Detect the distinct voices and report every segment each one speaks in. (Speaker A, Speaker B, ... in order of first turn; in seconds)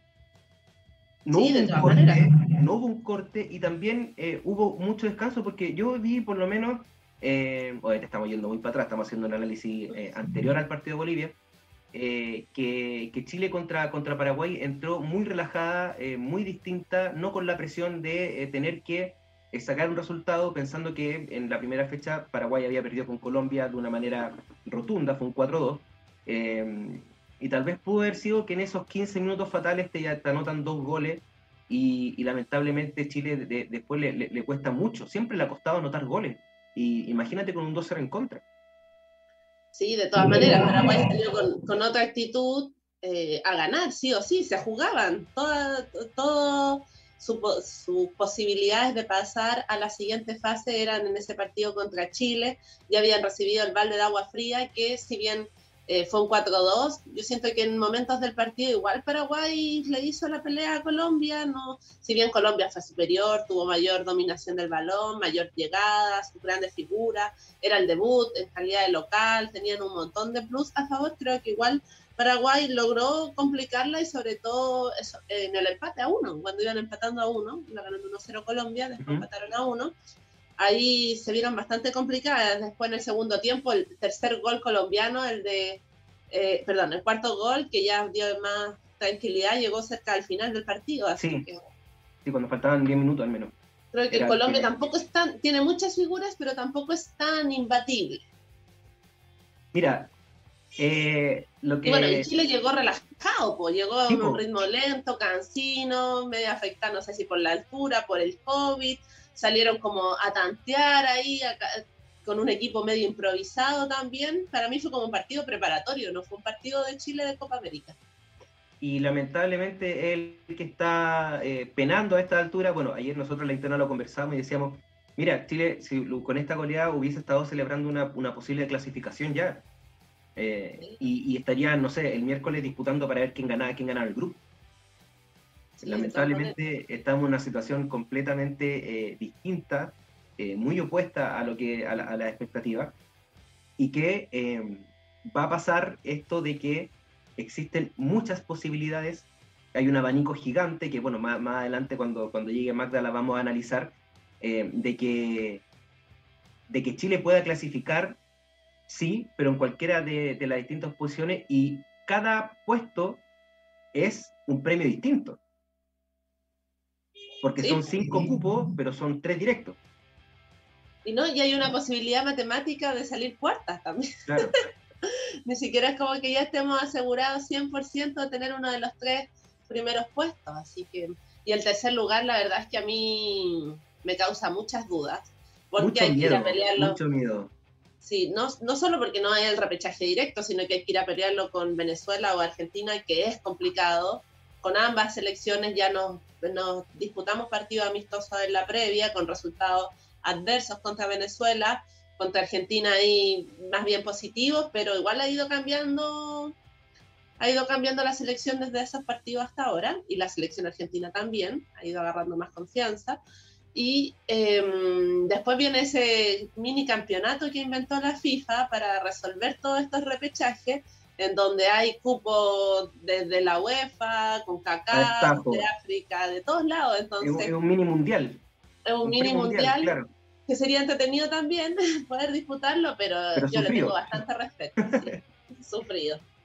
Speaker A: 1.3-11.3, 11.9-38.4, 40.3-40.8, 79.0-79.3, 91.2-91.5, 92.2-93.5, 94.1-94.7, 99.7-100.1, 100.8-102.3, 104.1-104.4, 118.8-129.6, 130.4-134.4, 135.8-142.9, 143.8-155.6, 156.7-158.2, 158.9-163.2, 163.9-165.4, 167.4-169.8, 174.3-174.5, 185.8-187.5, 224.9-225.7, 227.2-228.4, 229.0-230.1, 233.4-234.2, 234.8-235.2
Speaker B: 1.3-2.3, 39.8-79.9, 80.6-91.6, 93.9-98.2, 101.9-118.0, 135.8-136.5, 167.6-167.9, 171.1-174.5, 175.5-187.0, 188.0-206.6, 207.4-213.2, 213.7-227.5, 228.9-230.0, 230.5-236.2